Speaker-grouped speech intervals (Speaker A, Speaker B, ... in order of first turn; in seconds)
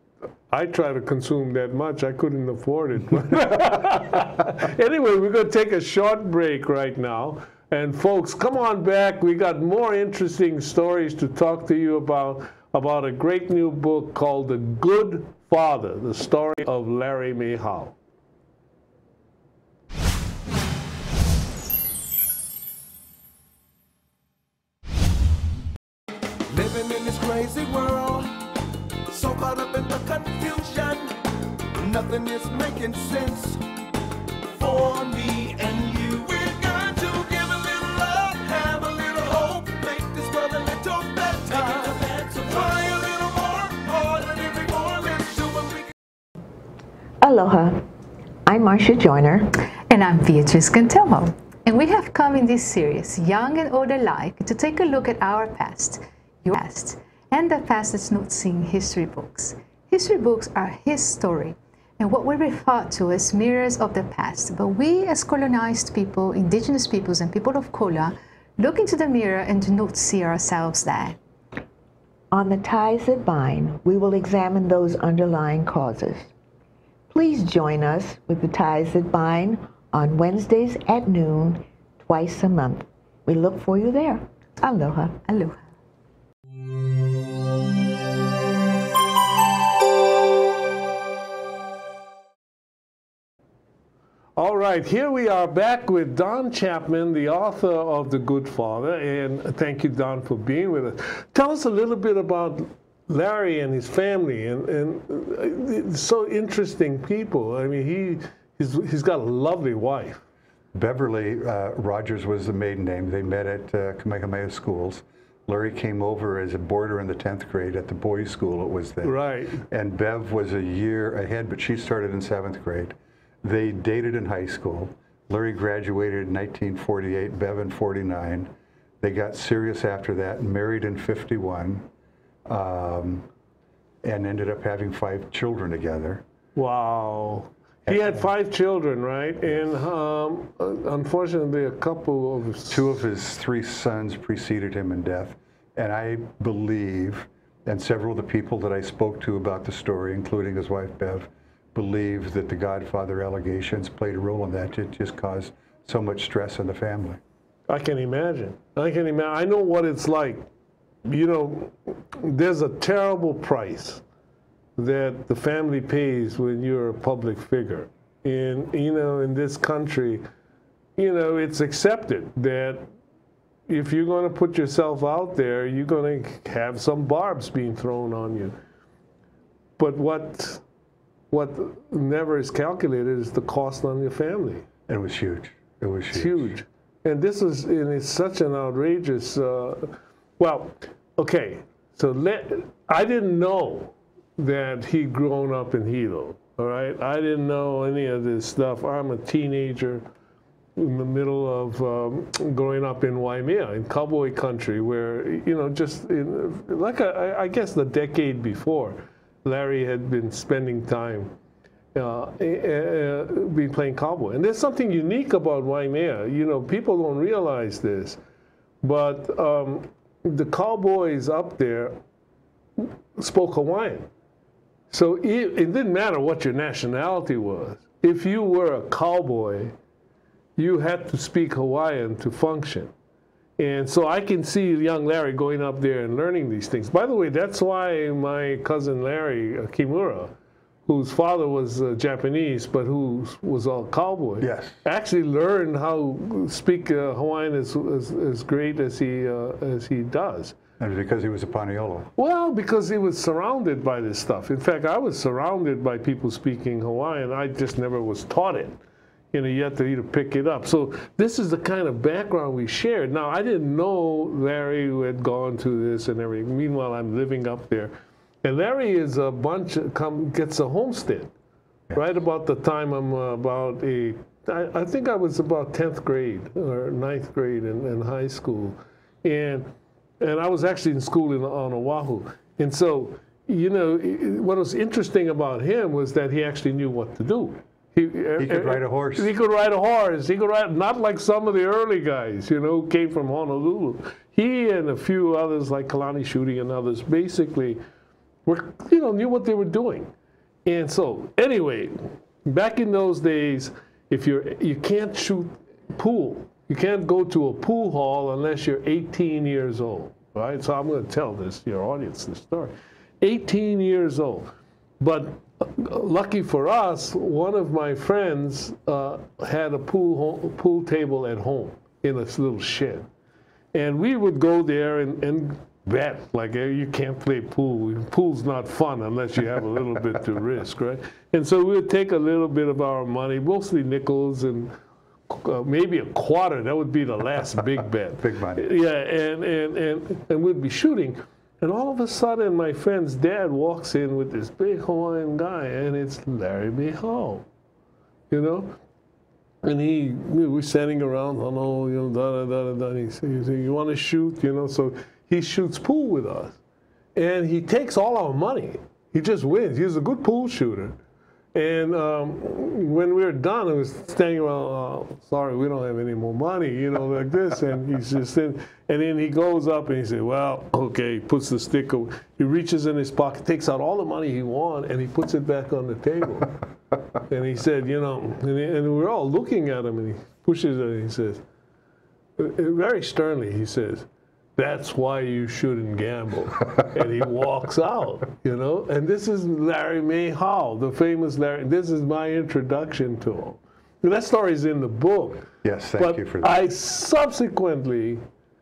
Speaker A: 0.5-18.0, 94.4-110.2, 119.0-119.6, 136.6-143.0, 157.7-160.5, 161.1-164.0, 164.8-170.2, 171.0-172.9, 173.7-178.6, 179.8-180.6, 181.3-184.7, 186.1-200.0, 200.8-211.3, 211.9-218.2, 218.8-222.0, 222.8-224.1, 224.9-229.7, 230.6-232.9, 233.6-240.3, 240.9-250.6, 252.2-258.8, 259.3-271.3, 271.9-279.7, 280.2-297.8, 298.4-300.1, 300.6-323.1, 323.7-334.7, 335.3-347.4, 348.3-348.8, 349.6-356.6, 357.1-360.9, 361.5-376.6, 377.3-381.4, 382.4-395.5, 396.0-398.2
Speaker B: 26.5-28.4, 29.1-33.6, 34.5-45.9
Speaker C: 47.2-47.8, 48.5-49.5, 72.3-76.3, 77.1-85.2
Speaker D: 49.9-71.2, 85.2-85.6
Speaker E: 110.7-131.9, 132.5-133.3, 134.0-136.2, 137.9-138.3, 142.7-157.2, 184.9-186.5, 244.4-244.8, 250.8-252.1, 288.4-289.3, 338.2-338.7, 395.6-396.6